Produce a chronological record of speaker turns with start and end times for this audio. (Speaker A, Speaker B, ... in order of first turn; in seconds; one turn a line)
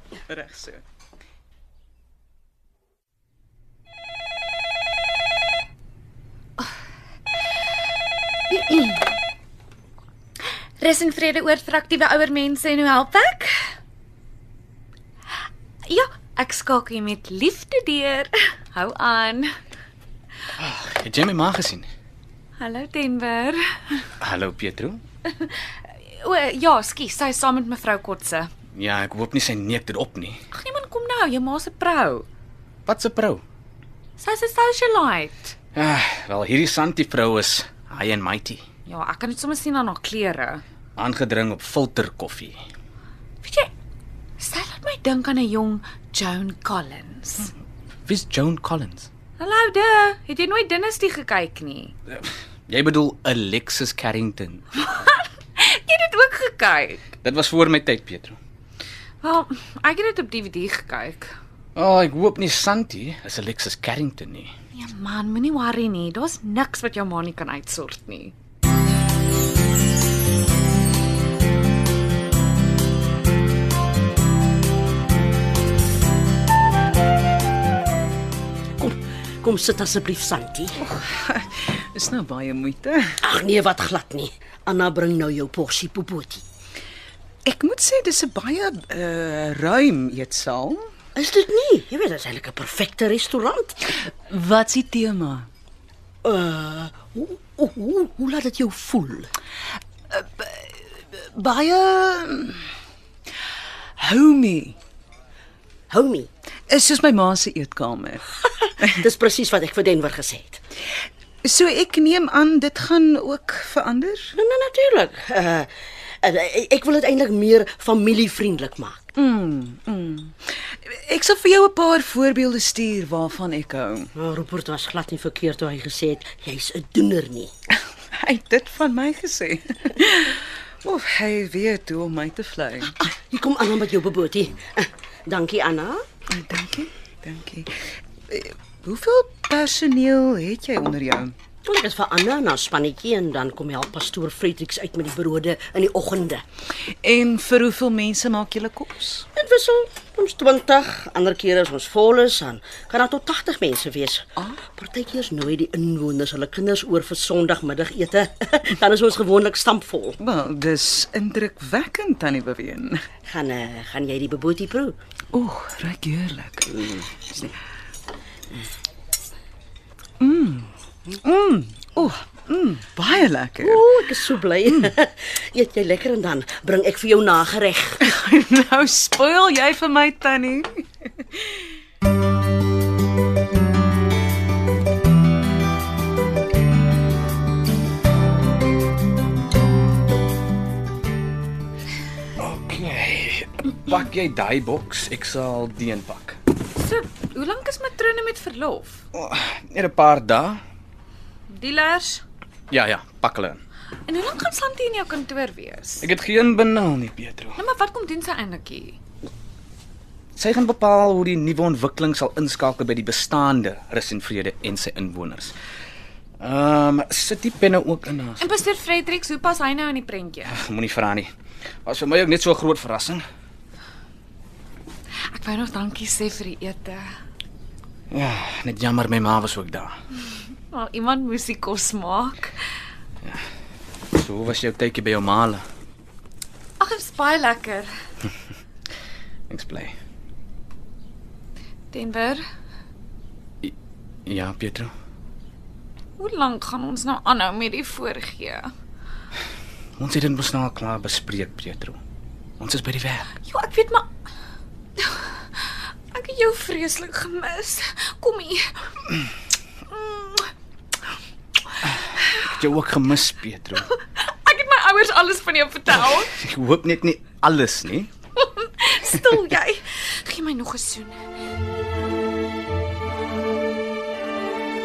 Speaker A: 0.3-0.8
Speaker B: 8.5-9.0
Speaker B: 10.8-13.6
Speaker B: 15.9-19.5
Speaker C: 20.6-21.9
Speaker B: 22.6-24.1
Speaker C: 24.2-25.0
Speaker B: 25.2-28.5
Speaker C: 28.7-30.4
Speaker B: 30.5-32.3
Speaker C: 32.9-33.4
Speaker B: 34.2-35.5
Speaker C: 35.7-38.6
Speaker B: 38.9-40.6
Speaker C: 41.0-42.6
Speaker B: 43.4-43.7
Speaker B: 44.4-47.5
Speaker C: 48.1-49.1
Speaker B: 49.4-51.9
Speaker C: 52.1-54.8
Speaker B: 54.8-57.1
Speaker C: 57.2-58.4
Speaker B: 59.2-61.3
Speaker C: 61.8-64.5
Speaker B: 64.7-68.3
Speaker D: 78.8-80.8
Speaker A: 80.8-83.2
Speaker D: 83.2-86.5
Speaker A: 87.5-90.8
Speaker D: 91.2-93.9
Speaker A: 94.1-95.5
Speaker D: 96.2-99.3
Speaker A: 100.1-102.7
Speaker A: 104.0-104.8
Speaker D: 105.9-106.3
Speaker A: 106.7-108.2
Speaker D: 108.6-110.6
Speaker A: 111.4-114.3
Speaker D: 114.3-119.1
Speaker A: 119.2-124.1
Speaker D: 124.2-127.5
Speaker A: 128.1-132.9
Speaker D: 133.3-136.0
Speaker A: 136.3-137.7
Speaker A: 138.3-141.3
Speaker D: 141.6-146.4
Speaker A: 147.0-149.3
Speaker D: 149.4-160.2
Speaker A: 160.2-163.0
Speaker D: 163.3-165.0
Speaker A: 165.3-166.8
Speaker A: 170.2-173.8
Speaker D: 173.6-178.0
Speaker A: 178.0-181.6
Speaker C: 192.4-196.4
Speaker B: 196.8-199.0
Speaker C: 199.1-200.6
Speaker B: 201.5-202.2
Speaker C: 202.7-203.6
Speaker B: 204.1-206.1
Speaker C: 206.0-207.6
Speaker B: 207.6-209.0
Speaker C: 210.4-215.6
Speaker C: 216.4-218.5
Speaker B: 218.4-220.6
Speaker C: 220.5-221.3
Speaker C: 221.8-223.2
Speaker B: 225.3-227.1
Speaker C: 228.1-229.9
Speaker B: 230.7-232.6
Speaker C: 234.1-235.7
Speaker B: 236.8-237.9
Speaker C: 239.5-239.9
Speaker B: 241.9-242.4
Speaker C: 244.3-244.9
Speaker B: 246.2-248.7
Speaker C: 250.0-252.0
Speaker C: 252.6-253.3
Speaker B: 253.4-254.1
Speaker B: 255.0-255.3
Speaker B: 256.1-258.7
Speaker B: 259.9-260.5
Speaker C: 261.9-263.9
Speaker B: 264.0-266.3
Speaker C: 266.3-268.1
Speaker B: 268.4-271.2